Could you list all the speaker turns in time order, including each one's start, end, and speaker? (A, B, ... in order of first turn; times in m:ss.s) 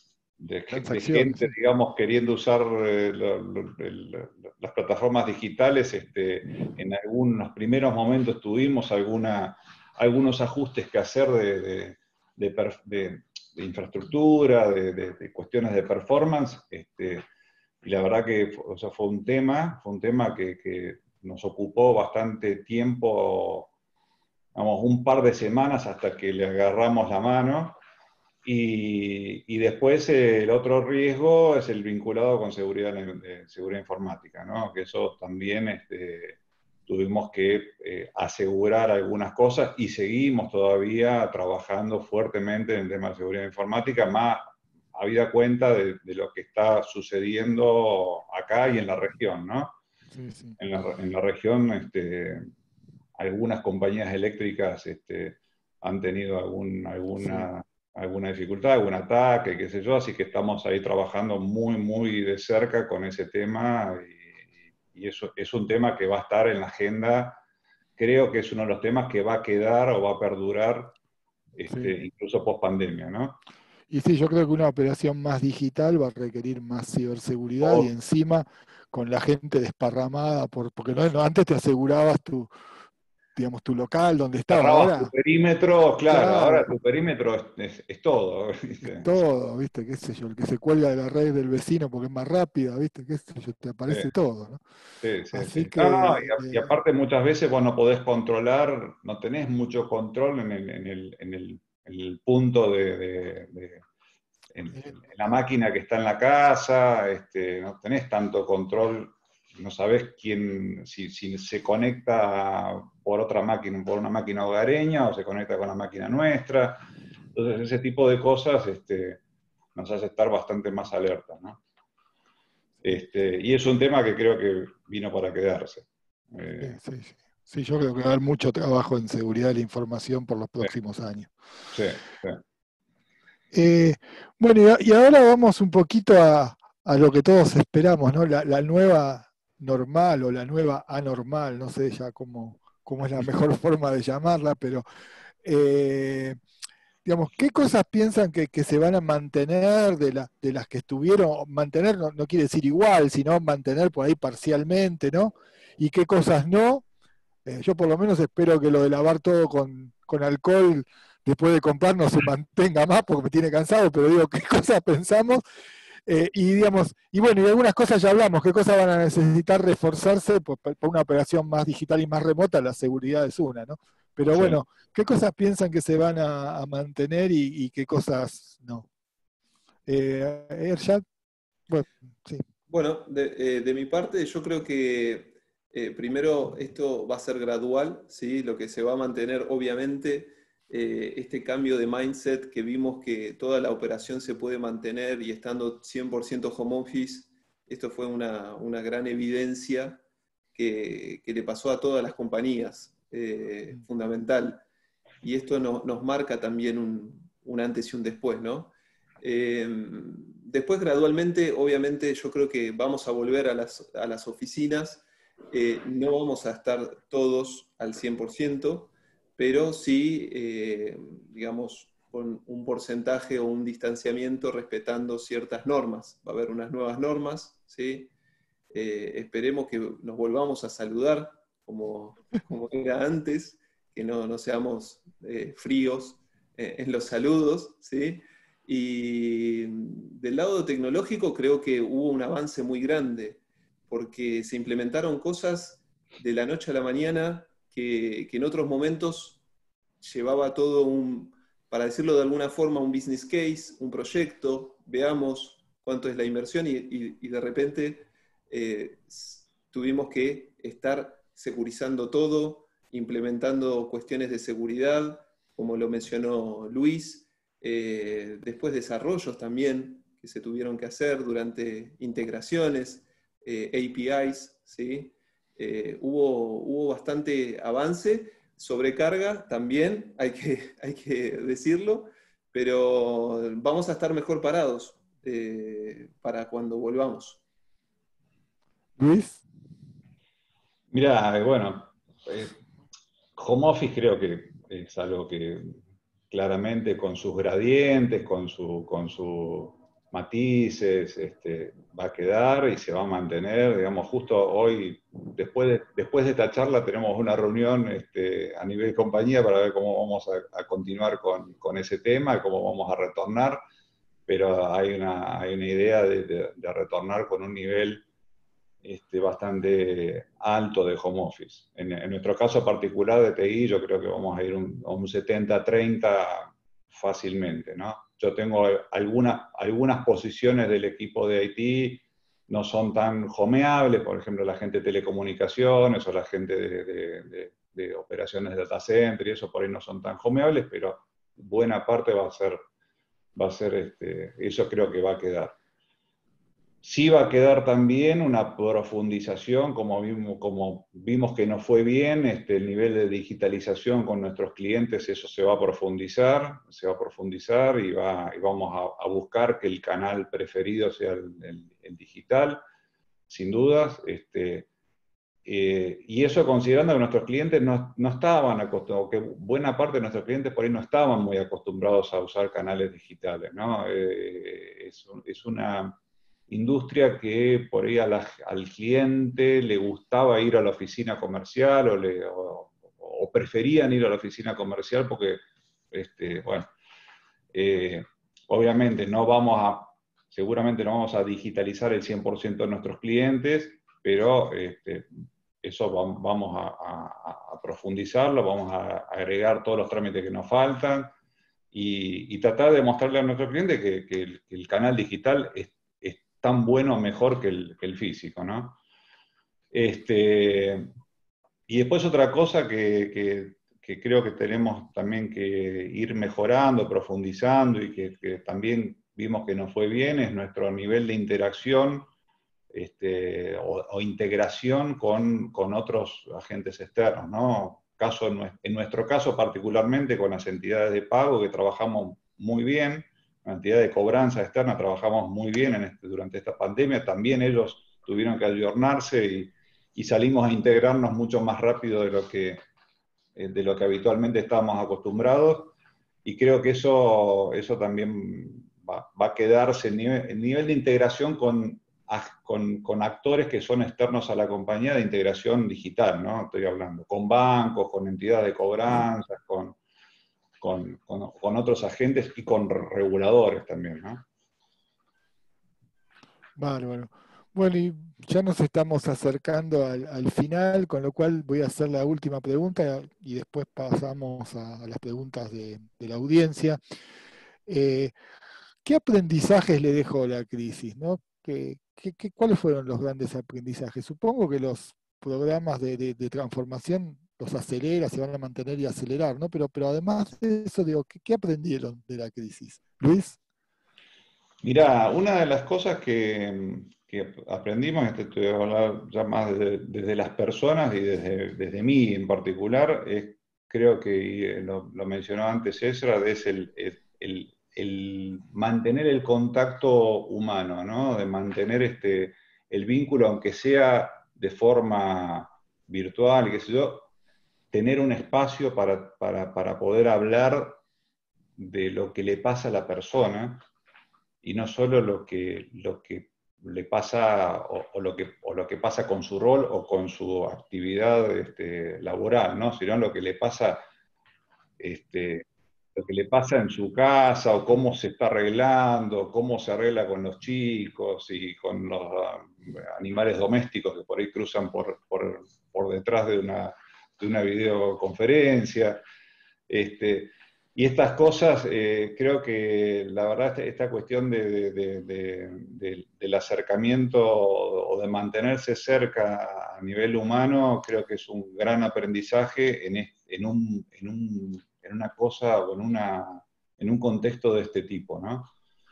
0:00.4-0:17.2 A
0:00.7-0:01.5 B
0:17.8-0:23.7 A
0:24.5-0:27.8 A
0:28.4-0:49.8 A
0:50.1-0:50.6 B
0:50.6-0:52.5 A
0:53.2-1:04.4 A
0:57.2-0:57.5 B
1:04.9-1:07.4 A
1:08.0-1:11.0 A
1:11.5-1:13.4 A
1:13.9-1:22.5 B
1:17.6-1:17.9 A
1:23.4-1:25.1 B
1:24.5-1:29.1 A
1:26.1-1:26.7 B
1:28.8-1:34.6 B
1:35.0-1:43.8 A
1:35.3-1:36.7 B
1:44.5-1:59.2 A
1:59.7-2:01.6 A
2:02.8-2:06.8 A
2:06.6-2:11.3 B
2:11.7-2:12.4 A
2:13.5-2:24.8 B
2:25.4-2:26.4 B
2:27.0-2:36.8 B
2:37.4-2:45.4 B
2:46.0-2:58.9 B
2:54.3-2:54.6 A
2:59.9-3:01.0 B
3:01.7-3:02.4 B
3:02.7-3:20.0 C
3:20.5-3:24.6 C
3:25.2-3:48.1 C
3:48.7-4:09.4 C
4:10.0-4:47.4 C
4:49.0-4:49.4 B
4:50.9-4:52.6 A
4:53.4-4:55.8 A
4:56.3-5:13.6 A
5:14.3-5:18.0 A
5:18.8-5:42.6 A
5:43.3-5:45.6 A
5:46.8-6:02.6 A
6:03.3-6:04.7 A
6:05.4-6:16.0 A
6:16.5-6:26.7 A
6:27.5-6:35.1 A
6:35.6-6:41.1 A
6:41.7-6:48.8 A
6:49.7-6:50.9 A
6:51.7-7:02.1 A
7:02.7-7:22.6 A
7:23.4-7:39.8 A
7:40.6-7:44.2 A
7:46.6-7:56.8 B
7:57.7-7:58.1 B
7:58.8-8:13.4 B
8:14.6-8:37.1 A
8:37.7-8:40.8 A
8:41.6-8:43.6 A
8:44.4-8:53.8 A
8:54.8-9:09.0 A
9:09.7-9:28.5 A